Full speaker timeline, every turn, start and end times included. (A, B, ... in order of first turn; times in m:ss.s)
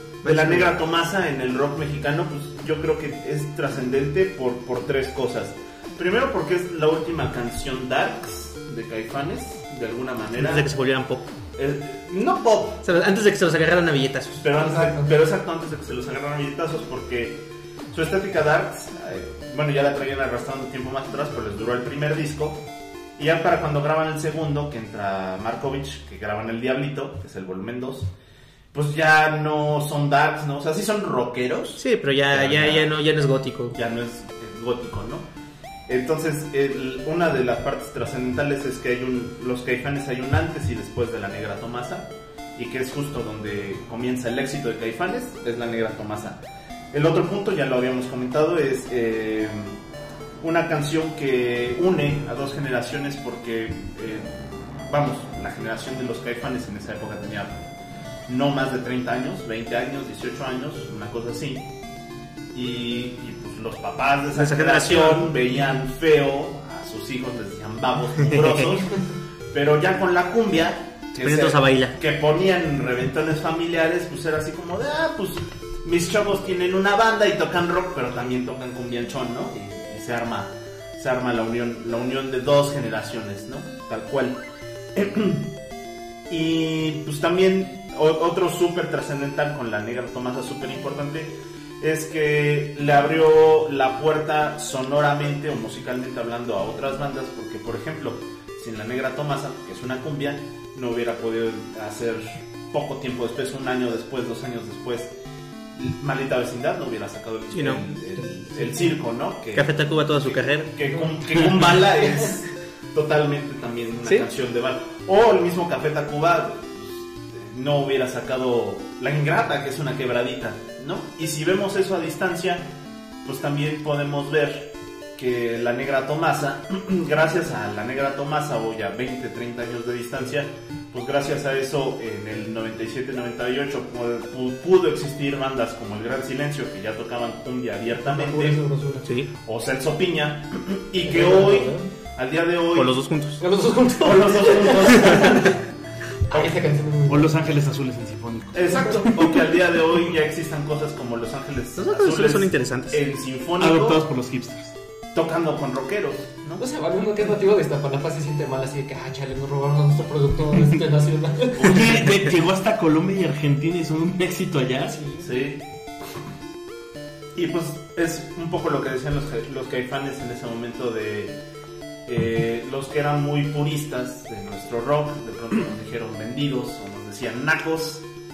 0:00.2-0:00.7 A
0:00.2-0:10.7 B
0:10.4-0:11.3 A
0:11.6-0:12.8 B
0:12.8-0:14.5 A
0:14.4-0:22.6 B
0:14.5-0:15.1 C
0:23.2-0:28.1 B
0:28.7-0:32.9 B
0:31.8-0:33.8 A
0:33.8-0:35.3 B
0:35.9-0:49.8 B
0:50.4-0:54.3 B
0:54.9-0:57.7 B
0:58.3-1:01.7 B
1:02.5-1:08.9 B
1:04.3-1:05.3 A
1:09.5-1:24.4 B
1:11.2-1:12.0 A
1:24.9-1:25.5 B
1:26.3-1:45.1 B
1:45.8-2:02.7 B
1:47.5-1:47.9 A
1:49.6-1:50.9 A
2:03.2-2:18.6 B
2:18.0-2:19.1 C
2:19.4-2:23.0 B
2:21.0-2:21.9 C
2:22.8-2:23.4 A
2:23.4-2:25.6 C
2:24.0-2:25.6 B
2:26.3-2:27.3 C
2:27.1-2:29.1 D
2:28.5-2:34.0 B
2:31.8-2:33.0 A
2:33.6-2:34.8 D
2:35.1-2:36.6 B
2:36.6-2:41.8 C
2:41.6-2:45.0 D
2:44.9-2:45.3 C
2:45.2-2:45.6 B
2:47.3-2:51.4 B
2:52.1-2:58.0 B